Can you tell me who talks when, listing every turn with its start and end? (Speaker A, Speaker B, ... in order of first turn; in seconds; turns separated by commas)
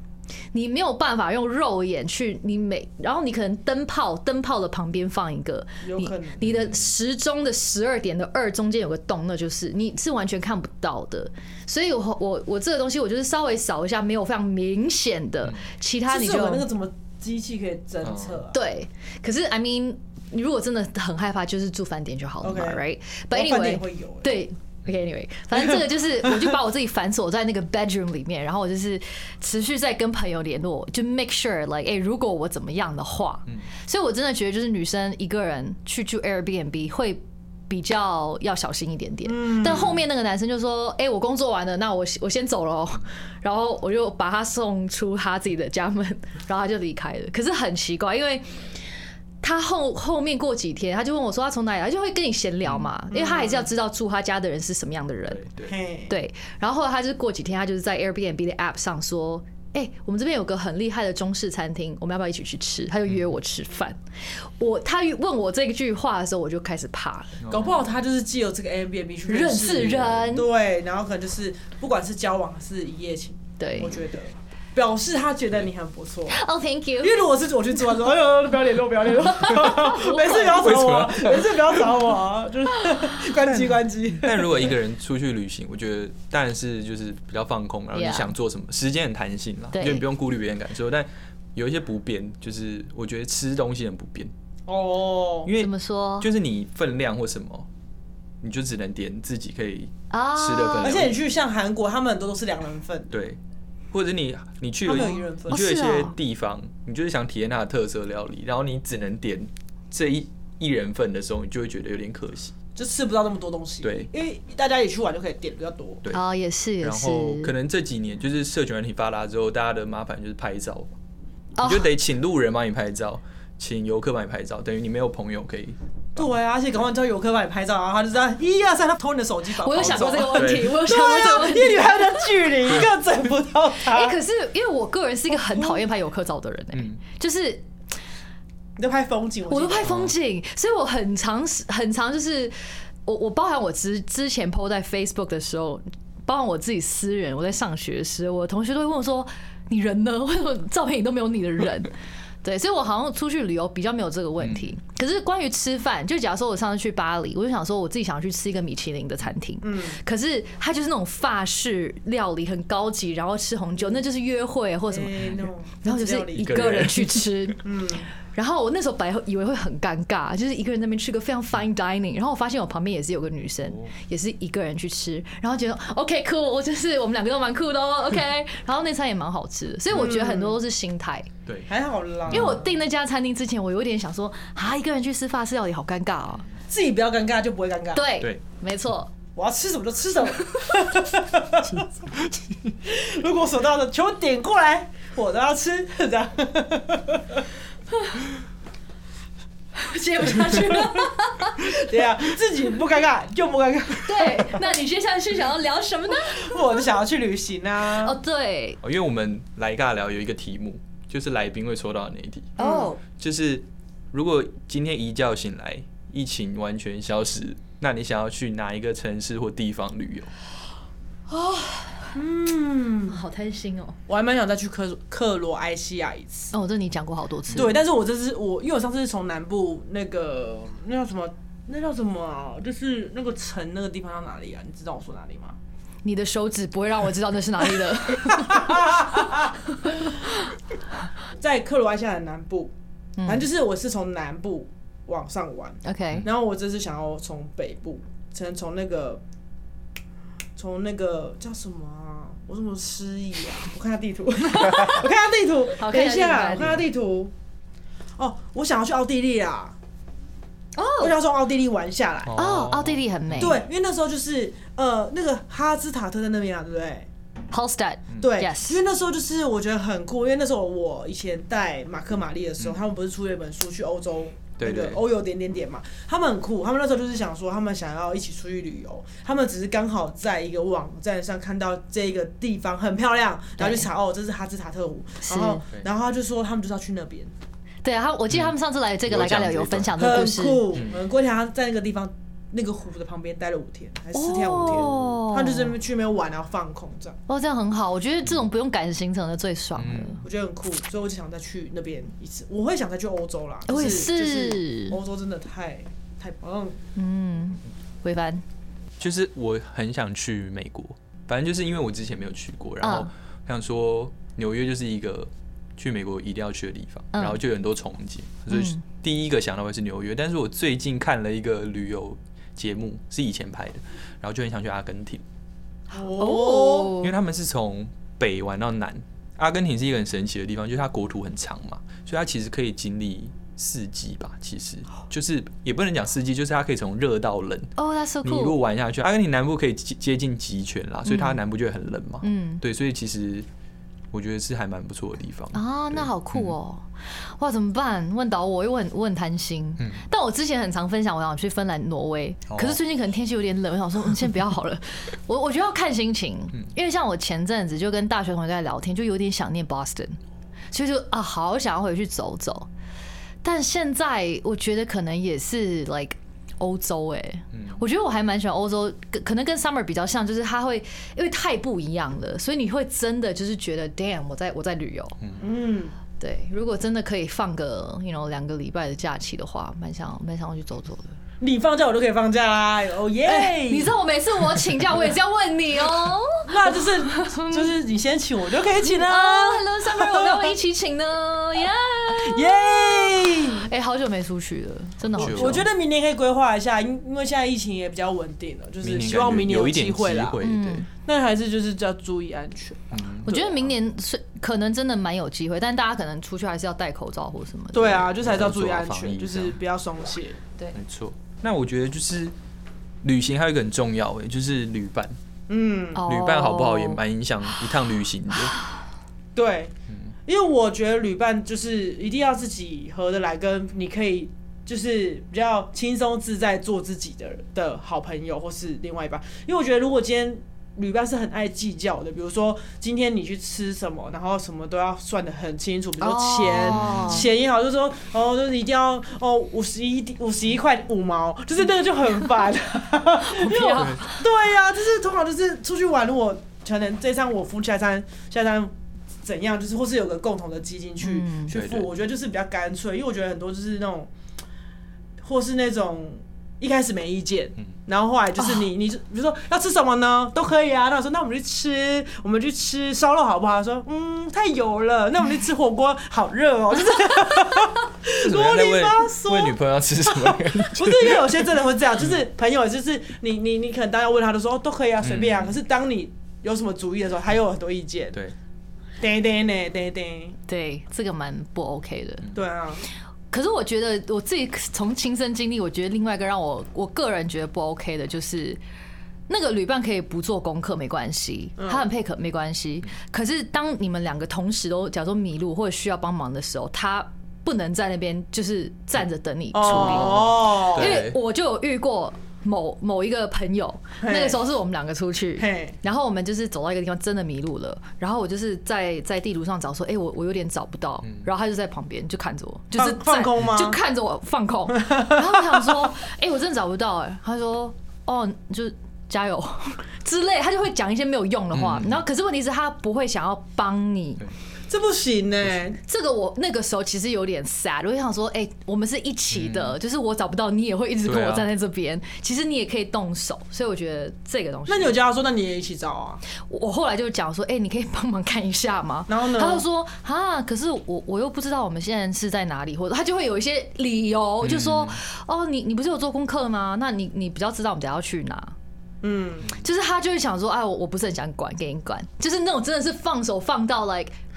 Speaker A: 0.5-16.6, Speaker B: 5.8-6.4, Speaker C: 6.4-6.8, Speaker B: 16.1-18.6, Speaker C: 18.0-18.4, Speaker A: 18.5-48.5, Speaker B: 22.4-24.4, Speaker B: 39.2-40.0, Speaker A: 49.4-55.5, Speaker C: 52.7-52.9, Speaker B: 53.1-53.7, Speaker C: 55.3-55.7, Speaker B: 55.7-56.1, Speaker A: 56.1-64.0, Speaker A: 64.6-67.4, Speaker C: 67.4-67.8, Speaker B: 67.5-76.4, Speaker A: 69.3-70.5, Speaker A: 73.6-73.9, Speaker A: 76.3-77.2, Speaker B: 77.0-84.7, Speaker A: 79.3-80.7, Speaker C: 80.5-81.6, Speaker C: 83.5-94.3, Speaker A: 87.9-88.3, Speaker A: 89.7-90.1, Speaker B: 94.7-95.5, Speaker C: 95.5-97.7, Speaker A: 95.5-96.3, Speaker C: 98.4-101.2, Speaker A: 100.1-101.1, Speaker B: 100.8-103.1, Speaker C: 103.1-103.4, Speaker C: 103.9-112.5, Speaker B: 104.9-105.6, Speaker A: 105.0-106.2, Speaker B: 112.8-116.0, Speaker C: 113.8-114.1, Speaker A: 116.1-117.5, Speaker C: 116.8-120.9, Speaker A: 121.6-121.9, Speaker C: 121.6-126.3, Speaker B: 126.2-134.2, Speaker A: 129.6-132.4, Speaker C: 129.7-130.8, Speaker A: 133.8-137.7, Speaker B: 135.4-135.8, Speaker B: 138.8-140.0, Speaker A: 139.5-142.5, Speaker C: 139.8-140.1, Speaker A: 143.1-167.6, Speaker C: 154.4-154.7, Speaker B: 159.6-160.0, Speaker B: 164.9-166.8, Speaker C: 166.3-167.2, Speaker B: 167.6-168.1, Speaker A: 168.3-181.3, Speaker B: 179.9-180.6, Speaker B: 181.7-182.6, Speaker C: 182.3-182.6, Speaker A: 182.3-186.5, Speaker B: 186.7-188.1, Speaker A: 187.9-189.1, Speaker B: 189.4-191.9, Speaker C: 192.2-192.6, Speaker B: 192.8-197.4, Speaker A: 199.8-201.8, Speaker B: 200.5-201.1, Speaker B: 201.6-204.6, Speaker A: 204.0-206.8, Speaker B: 206.2-208.2, Speaker A: 207.9-208.8, Speaker C: 208.8-212.6, Speaker A: 212.6-213.0, Speaker B: 212.6-213.0, Speaker C: 213.1-220.3, Speaker A: 221.3-222.1, Speaker B: 222.2-223.2, Speaker A: 223.1-224.0, Speaker B: 224.1-226.5, Speaker A: 226.5-227.8, Speaker B: 227.5-235.6, Speaker A: 236.0-239.1, Speaker B: 238.1-239.6, Speaker B: 241.4-242.7, Speaker A: 243.2-243.4, Speaker B: 243.3-249.2, Speaker A: 245.8-246.3, Speaker B: 250.6-257.3, Speaker A: 254.6-255.0, Speaker A: 255.8-256.8, Speaker B: 258.2-259.8, Speaker A: 260.8-261.1, Speaker B: 261.0-262.4, Speaker C: 262.3-263.6, Speaker A: 262.4-263.6, Speaker B: 263.4-267.1, Speaker A: 267.5-268.8, Speaker B: 268.2-287.3, Speaker C: 272.6-272.8, Speaker C: 274.6-275.0, Speaker A: 283.6-283.9, Speaker A: 285.2-285.6, Speaker A: 287.8-290.7, Speaker C: 289.1-290.1, Speaker B: 290.0-297.2, Speaker C: 290.7-291.0, Speaker A: 294.1-295.7, Speaker C: 294.6-295.2, Speaker A: 297.3-300.2, Speaker C: 299.8-300.2, Speaker B: 300.2-306.8, Speaker A: 303.7-305.0, Speaker A: 307.0-308.4, Speaker C: 309.0-325.2, Speaker A: 312.8-313.1, Speaker A: 317.1-317.4, Speaker A: 318.5-318.8, Speaker B: 325.9-327.0, Speaker A: 326.2-327.1, Speaker C: 327.0-343.5, Speaker A: 337.8-338.6, Speaker A: 341.1-341.4, Speaker A: 342.2-342.6, Speaker C: 344.1-346.6, Speaker A: 345.5-360.2, Speaker C: 352.5-352.8, Speaker A: 360.7-362.7, Speaker A: 363.4-375.2, Speaker C: 367.5-367.8, Speaker B: 375.4-376.0, Speaker A: 376.2-381.2, Speaker B: 381.4-383.9, Speaker A: 383.2-387.7, Speaker B: 386.5-390.6, Speaker A: 388.9-395.6, Speaker B: 392.1-393.7, Speaker C: 395.1-395.7, Speaker B: 395.2-400.4, Speaker C: 398.8-400.9, Speaker A: 400.4-400.9, Speaker B: 401.0-403.7, Speaker C: 402.9-403.3, Speaker A: 403.3-408.1, Speaker B: 407.7-410.4, Speaker C: 408.2-409.6, Speaker C: 410.7-412.3, Speaker C: 413.0-415.2, Speaker B: 415.5-416.0, Speaker A: 415.9-417.0, Speaker C: 416.1-418.6, Speaker A: 418.3-418.7, Speaker B: 419.4-419.7, Speaker B: 420.3-448.7, Speaker A: 436.0-437.3, Speaker C: 436.5-437.3, Speaker A: 443.2-444.2, Speaker C: 443.8-444.0, Speaker B: 449.2-454.1, Speaker A: 451.0-451.6, Speaker C: 451.5-451.9, Speaker B: 455.2-469.6, Speaker A: 458.4-458.6, Speaker C: 468.2-471.4, Speaker B: 470.2-478.2, Speaker C: 475.0-475.6, Speaker B: 479.0-480.4, Speaker A: 480.5-482.3, Speaker B: 482.3-482.8, Speaker A: 483.3-488.6, Speaker A: 489.3-524.2, Speaker B: 491.6-491.9, Speaker B: 499.5-501.0, Speaker C: 499.9-501.2, Speaker B: 504.0-504.4, Speaker B: 505.4-505.8, Speaker C: 511.0-511.3, Speaker B: 512.8-513.8, Speaker B: 514.8-515.9, Speaker C: 521.5-522.0, Speaker B: 524.7-525.8, Speaker A: 525.8-535.0, Speaker C: 529.3-529.8, Speaker C: 531.1-531.5, Speaker B: 534.7-536.2, Speaker A: 536.4-548.5, Speaker B: 539.1-539.6, Speaker C: 544.4-545.0, Speaker B: 549.0-549.5, Speaker A: 549.5-554.2